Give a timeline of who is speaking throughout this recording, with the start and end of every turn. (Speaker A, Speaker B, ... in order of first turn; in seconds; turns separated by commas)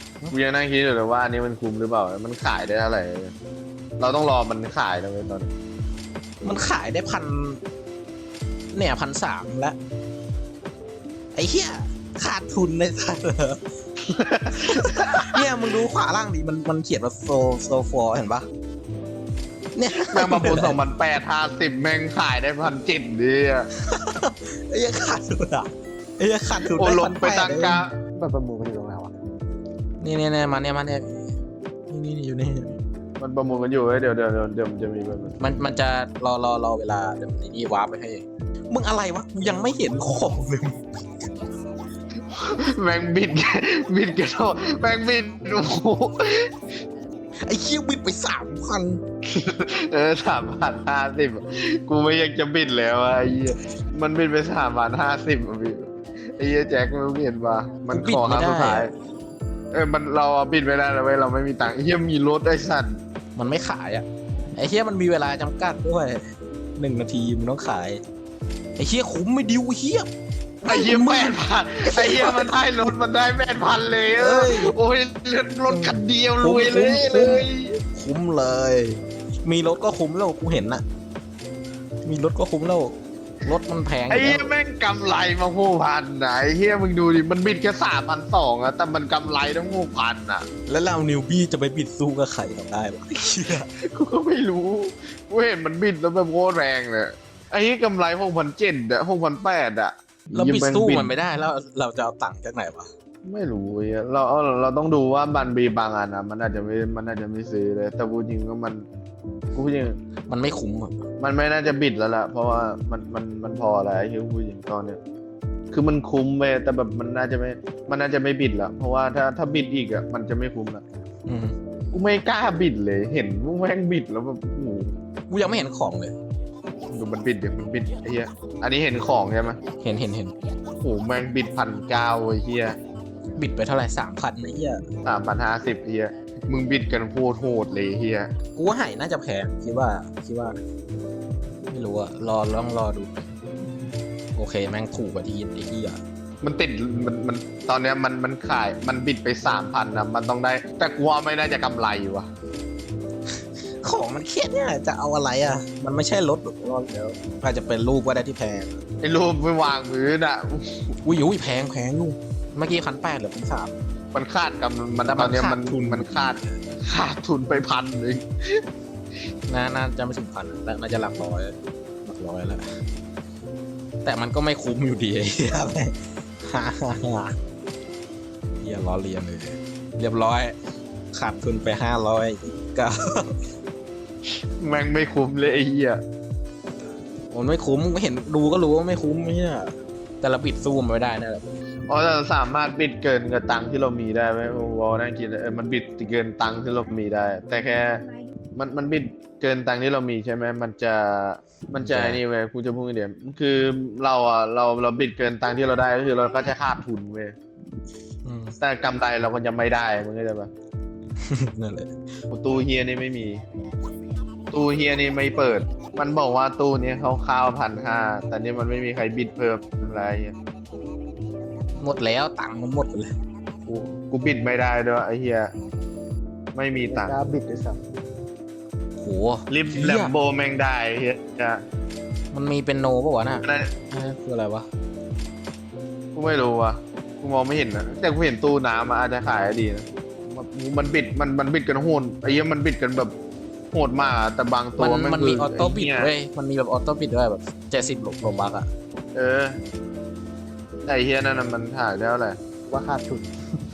Speaker A: 0.3-3.3, Speaker A: 4.0-5.5, Speaker B: 6.4-7.6, Speaker B: 8.7-9.8, Speaker B: 11.3-13.6, Speaker A: 14.1-15.4, Speaker B: 14.6-18.5, Speaker B: 19.8-20.8, Speaker A: 19.9-23.7, Speaker B: 23.8-25.7, Speaker B: 26.2-27.8, Speaker A: 26.6-27.9, Speaker C: 28.2-29.1, Speaker B: 30.0-31.3, Speaker B: 31.9-32.8, Speaker A: 33.2-35.4, Speaker B: 35.4-40.8, Speaker A: 42.3-46.5, Speaker B: 47.5-49.0, Speaker A: 49.3-58.9, Speaker B: 57.9-58.9, Speaker A: 59.7-62.9, Speaker B: 63.4-66.2, Speaker B: 66.8-68.0, Speaker B: 68.8-70.1, Speaker B: 70.6-72.6, Speaker A: 70.7-77.8, Speaker B: 74.2-74.7, Speaker B: 75.7-80.8, Speaker B: 82.0-84.5, Speaker A: 84.1-90.5, Speaker B: 90.7-93.7, Speaker A: 93.8-101.1, Speaker B: 100.3-102.9, Speaker A: 103.2-108.8, Speaker A: 109.5-110.0, Speaker B: 110.3-110.9, Speaker A: 111.2-115.0, Speaker A: 115.7-120.8, Speaker B: 121.3-121.5, Speaker A: 121.9-125.0, Speaker B: 125.3-126.2, Speaker A: 126.9-129.6, Speaker B: 129.8-130.3, Speaker A: 130.8-132.8, Speaker B: 133.4-134.8, Speaker A: 135.1-138.3, Speaker B: 138.6-140.6, Speaker B: 141.7-143.2, Speaker B: 144.4-146.0, Speaker A: 146.4-152.3, Speaker B: 153.8-158.8, Speaker A: 159.0-161.0, Speaker B: 161.1-163.7, Speaker A: 164.1-168.6, Speaker B: 165.1-166.6, Speaker B: 169.5-172.7, Speaker B: 174.0-177.3, Speaker B: 178.6-180.5, Speaker B: 181.1-183.4, Speaker A: 184.3-186.0, Speaker B: 187.3-191.4, Speaker A: 191.9-198.0, Speaker A: 198.6-207.3, Speaker B: 201.8-202.2, Speaker B: 208.2-208.5, Speaker A: 208.6-210.5, Speaker B: 211.2-211.9, Speaker A: 212.3-213.4, Speaker A: 214.5-220.3, Speaker B: 221.8-223.1, Speaker A: 223.7-225.5, Speaker A: 226.5-227.2, Speaker C: 226.8-227.8, Speaker B: 229.0-230.1, Speaker A: 229.5-231.6, Speaker B: 232.3-234.7, Speaker A: 233.4-233.7, Speaker A: 236.2-243.1, Speaker A: 243.7-246.1, Speaker B: 244.8-248.7, Speaker A: 249.1-249.6, Speaker A: 250.9-252.4, Speaker C: 252.7-253.3